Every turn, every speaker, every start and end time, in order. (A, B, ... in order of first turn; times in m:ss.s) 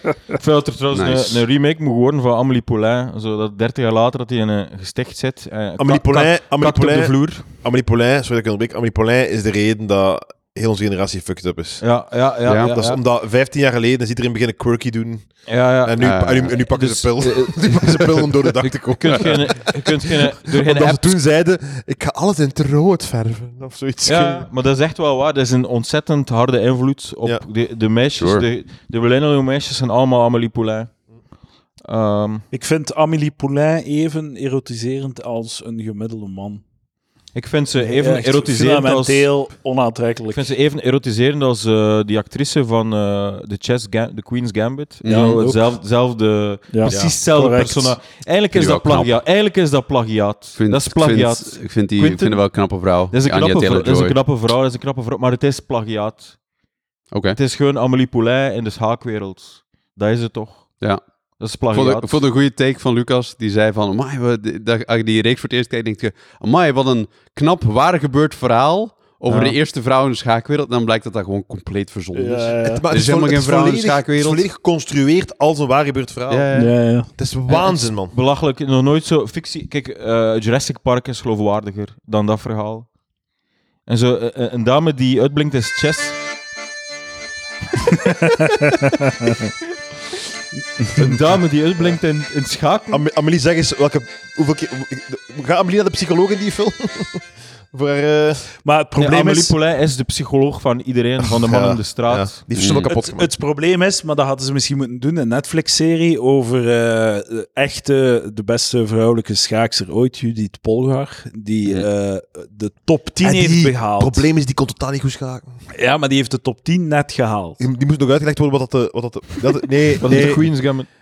0:00.4-0:07.4 A
0:00.9-0:01.4 B
0:05.8-0:11.8 C
0:11.8-0:13.0 A
0:12.4-0:12.8 B
0:12.7-0:24.5 C
0:15.5-0:18.0 A
0:16.0-0:16.6 B
0:18.6-0:21.1 A
0:24.1-0:30.9 A
0:28.2-0:28.4 B
0:31.8-0:32.5 A
0:32.5-0:36.6 D
0:37.3-0:39.3 A
0:37.8-0:40.4 D
0:40.3-0:52.4 A
0:45.0-0:45.3 B
0:45.0-0:45.7 D
0:46.7-0:48.0 D
0:46.9-0:47.2 C
0:48.5-0:49.2 B
0:50.6-0:54.2 B
0:53.1-0:56.4 A
0:57.1-0:57.4 B
0:57.4-1:00.8 A
1:01.4-1:02.2 A
1:01.7-1:14.4 B
1:09.3-1:09.6 A
1:12.1-1:12.8 D
1:12.6-1:18.1 C
1:16.3-1:16.8 B
1:16.6-1:17.1 D
1:17.5-1:22.9 A
1:23.9-1:26.2 A
1:30.8-1:33.0 A
1:32.9-1:38.5 C
1:38.6-1:39.5 D
1:39.0-1:42.4 A
1:41.2-1:43.3 C
1:42.5-1:42.9 B
1:42.9-1:54.3 D
1:53.2-1:55.5 C
1:55.7-1:57.6 D
1:57.6-2:00.5 C
2:00.0-2:00.9 A